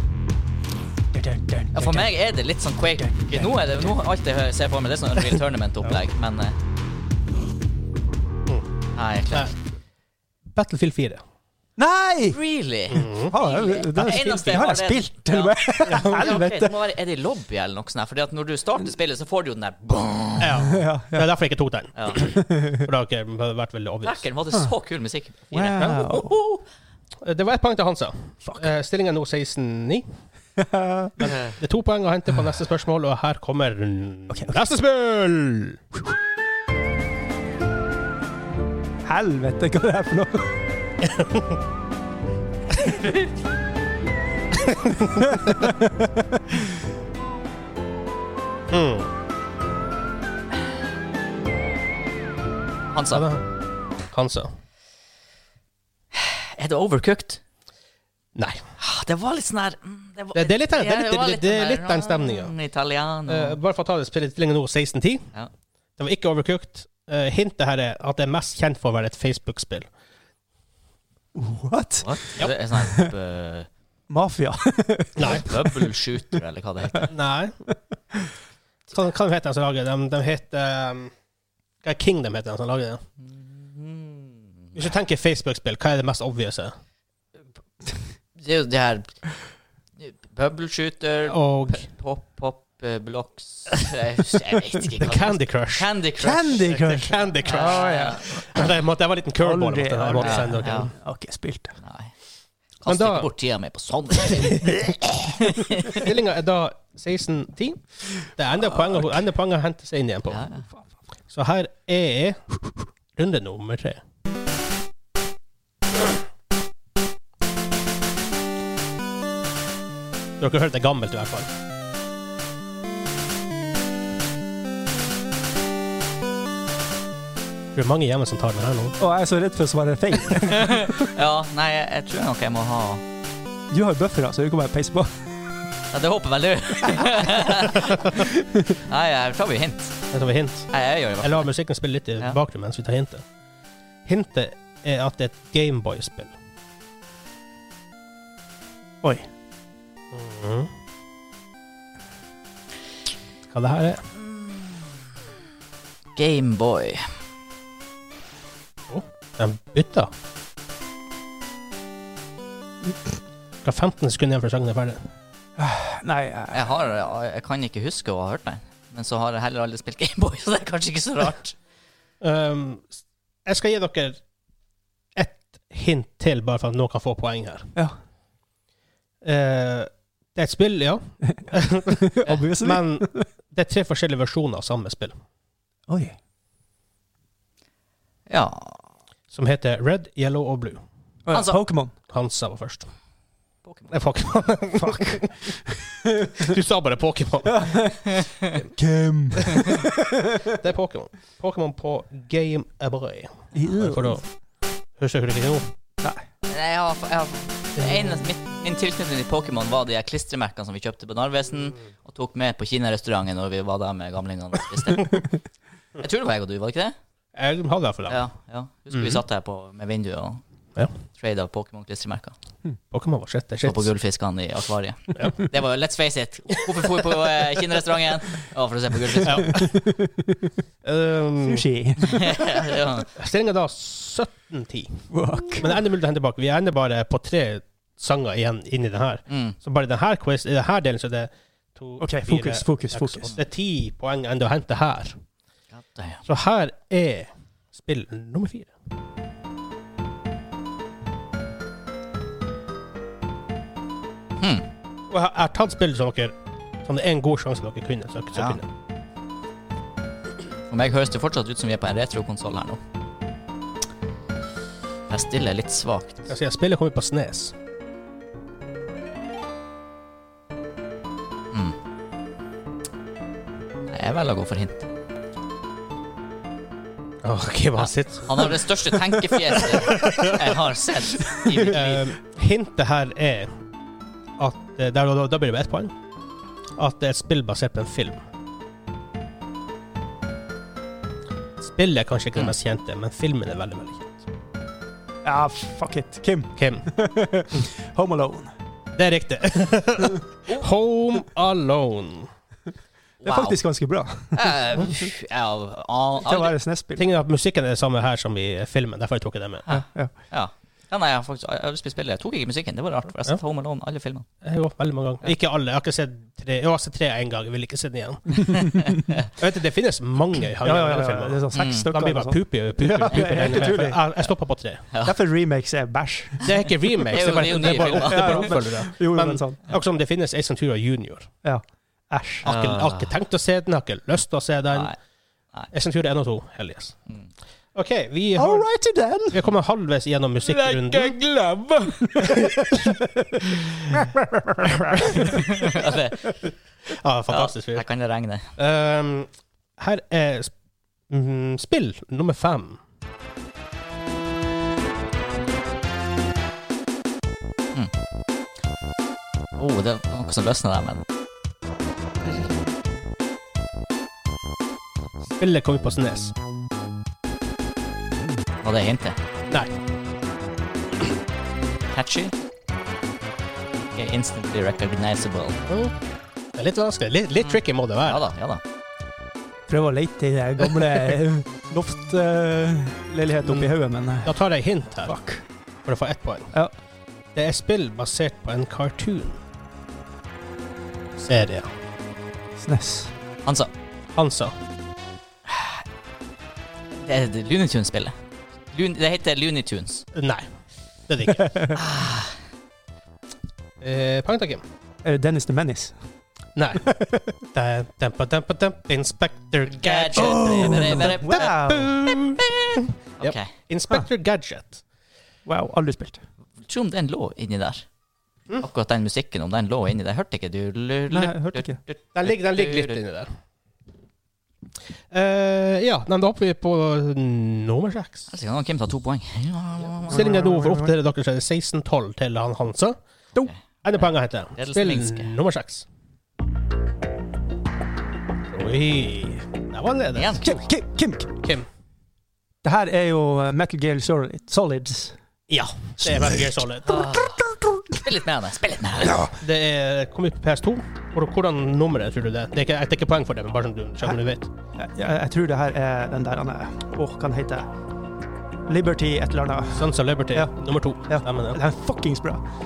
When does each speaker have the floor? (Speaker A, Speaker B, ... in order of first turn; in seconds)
Speaker A: 1.1-2.1, 3.0-3.9, 11.8-12.4, 13.2-16.8, 20.7-21.3, 22.2-22.9, 25.5-26.4, 30.6-31.2, 34.3-34.6, 39.0-40.6, 45.2-46.6, 71.3-72.2, 72.8-73.1, 74.1-75.8, 96.2-98.4, 99.4-101.8, 129.0-130.7, 133.7-135.2, 138.2-138.8, 165.6-166.7, 181.9-183.3, 185.9-186.2, 191.3-191.9, 194.8-196.5, 197.5-198.1, 198.8-200.5, 203.6-204.2, 229.5-230.5, 231.4-232.3, 235.1-235.7, 242.0-243.3, 281.4-281.7, 295.2-298.5, 303.2-304.8, 306.2-307.1, 309.7-310.1, 320.6-324.0, 325.0-326.5, 327.4-329.7, 331.4-332.5, 338.4-339.4, 340.4-345.7, 379.7-384.4, 385.1-385.4, 392.6-393.1, 405.0-406.0, 406.9-407.3, 410.2-412.1, 415.5-416.2, 421.1-421.8, 430.1-430.9, 440.4-441.4, 442.6-445.2, 447.4-448.0, 454.8-457.7, 458.7-462.4
Speaker B: 1.7-6.6, 8.9-9.6, 12.3-20.7, 21.9-22.2, 24.0-26.5, 31.2-31.6, 52.9-53.3, 56.1-57.4, 58.8-63.6, 72.0-73.7, 75.2-77.1, 83.2-84.8, 88.4-89.2, 90.0-96.7, 97.5-98.7, 100.2-100.9, 101.8-102.1, 102.8-104.8, 105.3-106.1, 110.3-110.7, 130.5-133.0, 135.9-138.2, 138.7-140.0, 140.7-141.5, 154.3-154.8, 156.2-157.2, 166.5-171.6, 188.3-188.8, 191.3-191.6, 193.7-193.9, 198.2-198.5, 206.4-215.3, 216.0-216.9, 218.1-220.4, 221.1-222.4, 223.6-229.5, 232.0-233.1, 239.3-239.6, 245.7-246.2, 254.4-254.7, 260.7-262.8, 265.1-266.3, 273.9-274.9, 277.8-282.1, 303.2-303.6, 304.3-306.5, 309.7-314.3, 318.5-319.3, 321.5-321.9, 323.1-324.3, 327.1-328.6, 332.4-333.1, 334.7-335.0, 345.3-346.5, 347.3-348.5, 359.6-361.0, 368.6-369.2, 371.9-372.3, 373.9-375.6, 377.4-378.6, 395.5-395.8, 397.1-398.1, 398.7-400.1, 401.7-402.4, 409.8-411.5, 413.2-413.5, 416.6-417.9, 418.6-423.0, 428.3-430.2, 433.4-435.3, 440.1-440.6, 446.9-449.3
Speaker C: 10.5-11.2, 12.9-13.3, 14.0-14.4, 15.9-16.3, 20.4-24.2, 25.7-26.4, 27.2-30.1, 31.2-35.8, 41.0-41.6, 48.7-49.1, 53.1-53.5, 54.1-54.5, 58.4-58.6, 60.4-62.5, 63.3-65.3, 66.0-69.9, 75.2-75.5, 77.1-77.5, 78.9-81.1, 81.8-83.0, 84.8-86.7, 91.2-91.9, 95.0-95.9, 96.6-100.9, 102.9-103.3, 105.9-110.4, 111.3-114.0, 120.4-121.5, 127.7-129.0, 140.1-140.7, 141.2-143.2, 144.1-146.3, 150.1-150.7, 153.5-154.1, 158.9-160.1, 163.6-165.1, 172.2-174.2, 175.2-177.7, 179.2-185.2, 189.3-190.8, 192.1-192.9, 193.9-195.3, 196.4-197.9, 199.4-199.8, 200.5-204.2, 205.0-205.7, 217.3-218.2, 218.9-219.2, 222.9-223.9, 225.2-225.4, 229.2-229.7, 230.8-231.7, 233.2-245.2, 246.3-248.7, 255.1-258.7, 266.3-267.5, 277.2-278.6, 279.9-280.4, 281.6-283.5, 284.4-285.9, 286.8-288.2, 291.6-294.2, 296.6-296.9, 299.0-302.3, 307.0-309.6, 314.4-318.8, 319.4-324.8, 326.4-331.3, 332.4-334.9, 335.7-337.0, 337.8-338.7, 339.3-341.2, 342.3-342.6, 347.0-347.9, 348.6-350.5, 351.1-352.8, 365.3-366.3, 375.7-375.9, 376.6-378.3, 383.4-385.1, 385.9-386.5, 387.4-389.4, 391.2-391.7, 394.2-394.5, 400.1-400.5, 401.1-401.5, 403.8-404.6, 406.6-414.8, 422.1-423.3, 425.1-428.3, 430.1-433.0, 433.8-435.9, 438.5-440.4, 445.5-447.1, 449.0-454.5, 459.8-461.6